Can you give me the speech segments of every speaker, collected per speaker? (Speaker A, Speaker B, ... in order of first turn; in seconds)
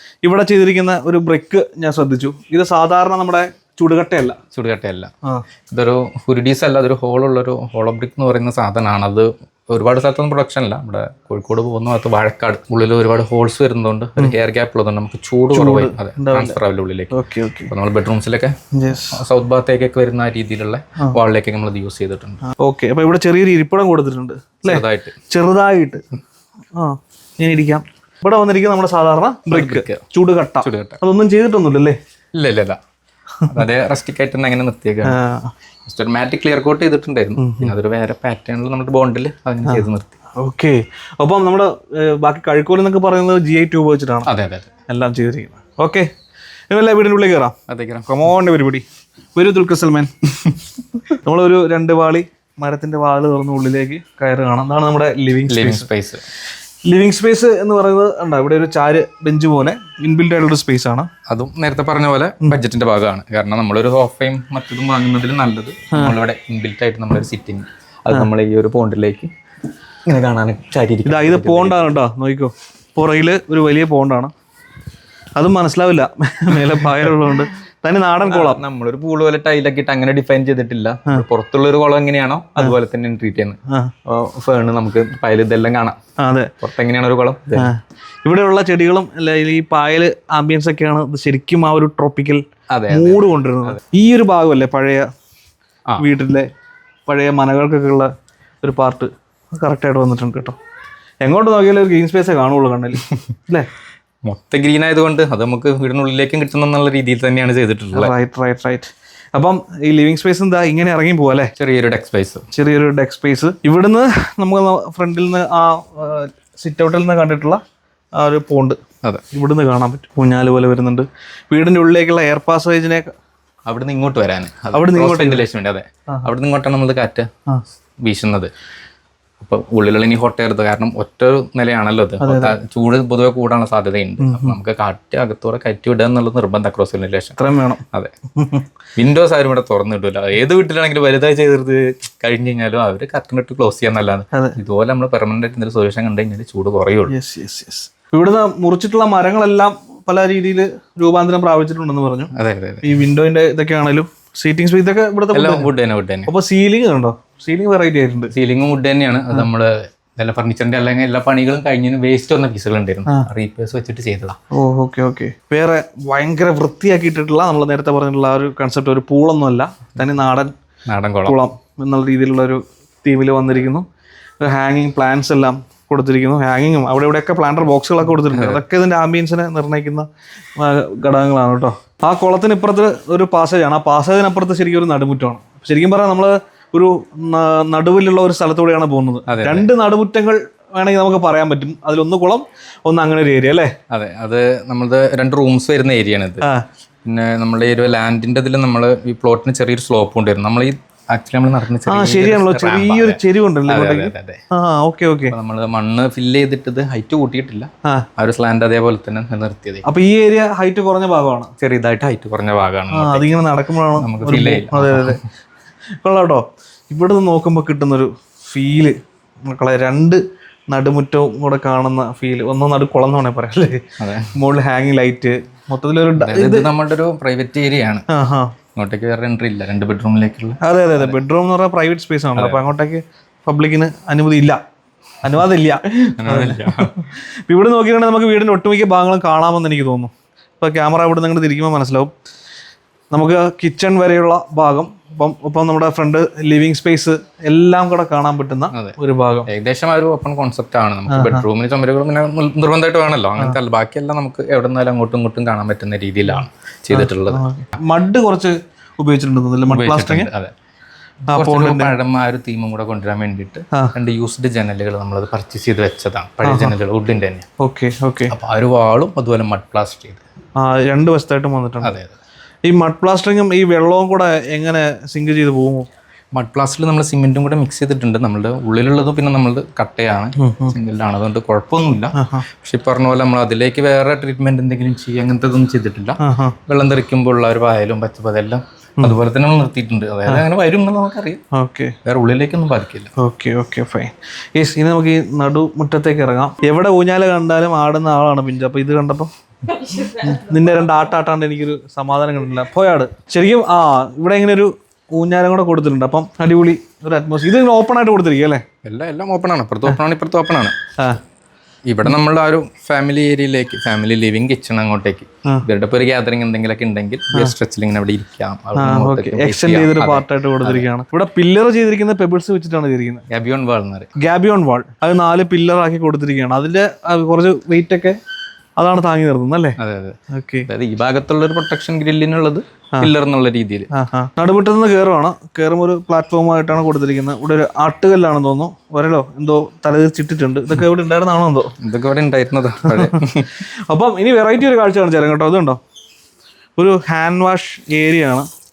Speaker A: 0.2-4.4, 15.5-16.6, 17.1-17.7, 18.7-19.2, 22.4-26.0, 26.8-32.0, 33.4-33.6, 35.0-35.5, 37.4-37.7, 40.4-44.3, 44.8-46.1, 46.7-47.5, 48.1-55.9, 56.8-61.1, 71.0-74.3, 75.3-78.6, 83.7-83.9, 86.2-86.5, 87.5-95.1, 96.0-96.5, 97.1-98.1, 98.6-100.6, 101.2-103.7, 107.9-111.5, 112.5-117.6, 118.1-118.8, 119.3-123.1, 124.7-125.5, 132.2-132.6, 134.2-134.6, 137.4-137.8, 138.3-138.7, 147.1-152.3, 152.8-155.7, 156.3-158.3, 164.5-170.5, 171.2-173.8, 174.4-180.1, 180.6-193.7, 201.8-205.3, 209.8-211.5, 212.9-215.2, 216.0-223.8, 224.3-226.7, 228.1-228.5, 230.6-234.6, 235.2-242.1, 243.1-249.5, 251.1-251.4, 256.9-260.3, 261.3-261.9, 266.4-266.7, 267.6-268.3, 270.6-271.9, 272.6-275.9, 280.4-280.7, 282.2-282.4, 286.2-286.6, 291.5-291.9, 293.2-299.3, 300.0-308.6, 318.7-323.2, 324.2-328.2, 328.8-329.8, 330.3-330.7, 333.9-341.7, 342.9-345.8, 346.8-348.5
Speaker B: 4.5-5.1, 5.7-17.1, 17.7-18.5, 19.1-22.4, 24.7-25.1, 29.5-30.0, 30.6-31.0, 32.3-32.8, 33.5-35.1, 35.9-40.1, 44.3-44.8, 47.7-48.1, 55.5-56.2, 61.3-69.3, 70.0-71.8, 78.3-86.0, 86.6-87.7, 92.7-93.2, 104.3-108.1, 111.6-112.4, 123.7-127.3, 128.0-128.5, 129.4-137.3, 138.9-147.1, 152.3-152.8, 155.3-156.3, 158.3-164.4, 170.9-171.3, 178.3-178.6, 189.3-189.6, 193.9-196.4, 197.0-203.2, 203.7-204.4, 205.3-209.8, 211.6-213.3, 214.0-215.2, 226.2-228.0, 228.8-231.2, 236.2-236.9, 248.7-257.4, 259.7-260.5, 261.3-267.4, 268.3-270.2, 271.8-272.1, 276.3-291.4, 292.1-293.1, 308.8-310.7, 311.9-320.9, 323.3-324.1, 329.8-333.9, 341.8-343.5